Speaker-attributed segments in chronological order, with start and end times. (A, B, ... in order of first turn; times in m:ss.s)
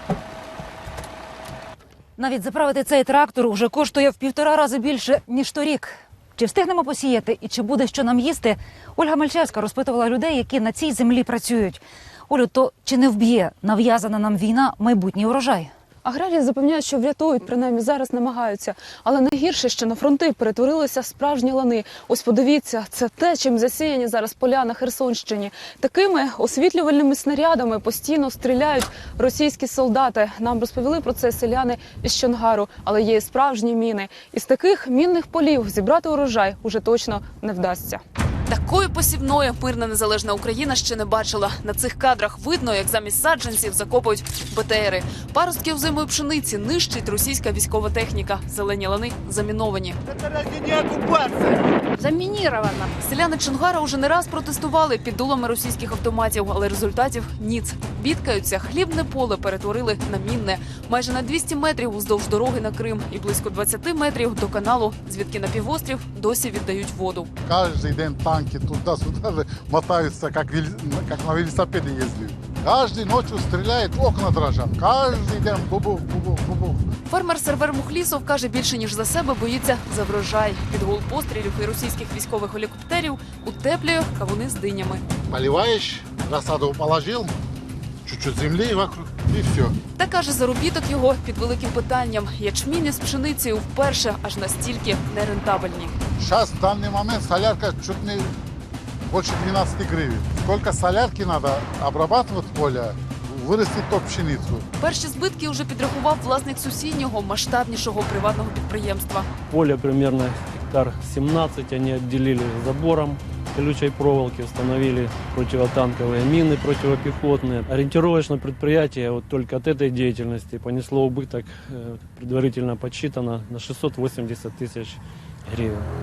0:02.2-0:15.7 A
0:16.0-0:38.0 B
0:38.5-0:50.0 C
0:50.1-0:52.9 D
0:52.9-1:07.3 C
1:07.4-1:16.8 E
1:17.1-1:25.0 C
1:25.2-1:27.3 E
1:28.0-1:29.7 E
1:30.0-1:35.9 C
1:36.2-1:38.3 E
1:39.1-1:44.6 E
1:44.8-1:49.3 C
1:49.5-2:05.9 F